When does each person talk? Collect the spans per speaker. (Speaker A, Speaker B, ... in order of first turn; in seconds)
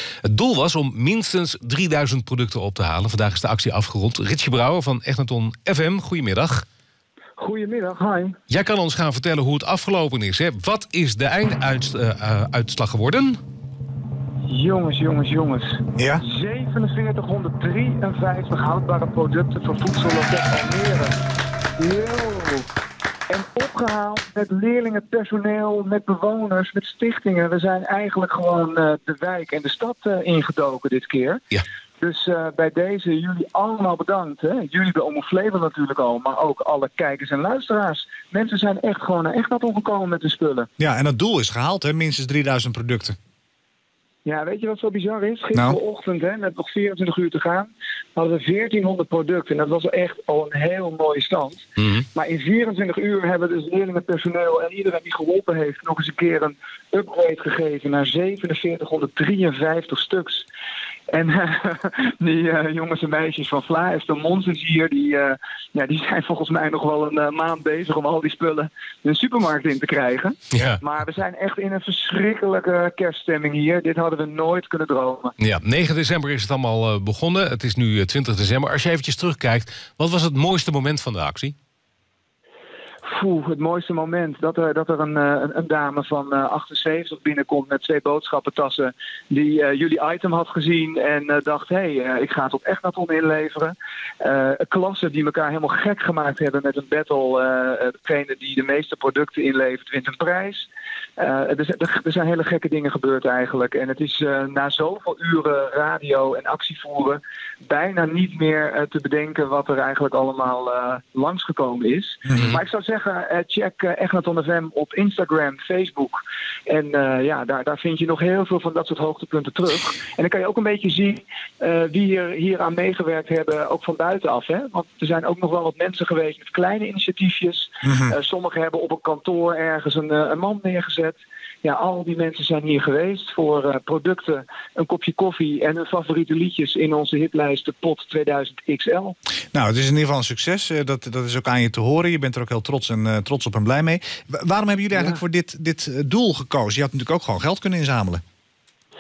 Speaker A: 0.2-6.7, 8.5-13.4, 70.5-70.8, 75.4-81.5
Speaker B: 7.4-8.4, 14.5-21.2, 21.8-22.7, 23.3-31.4, 32.0-40.7, 44.2-60.5, 61.1-75.3, 83.0-139.2, 144.9-145.2
Speaker C: 16.0-16.2, 40.8-43.2, 139.5-148.2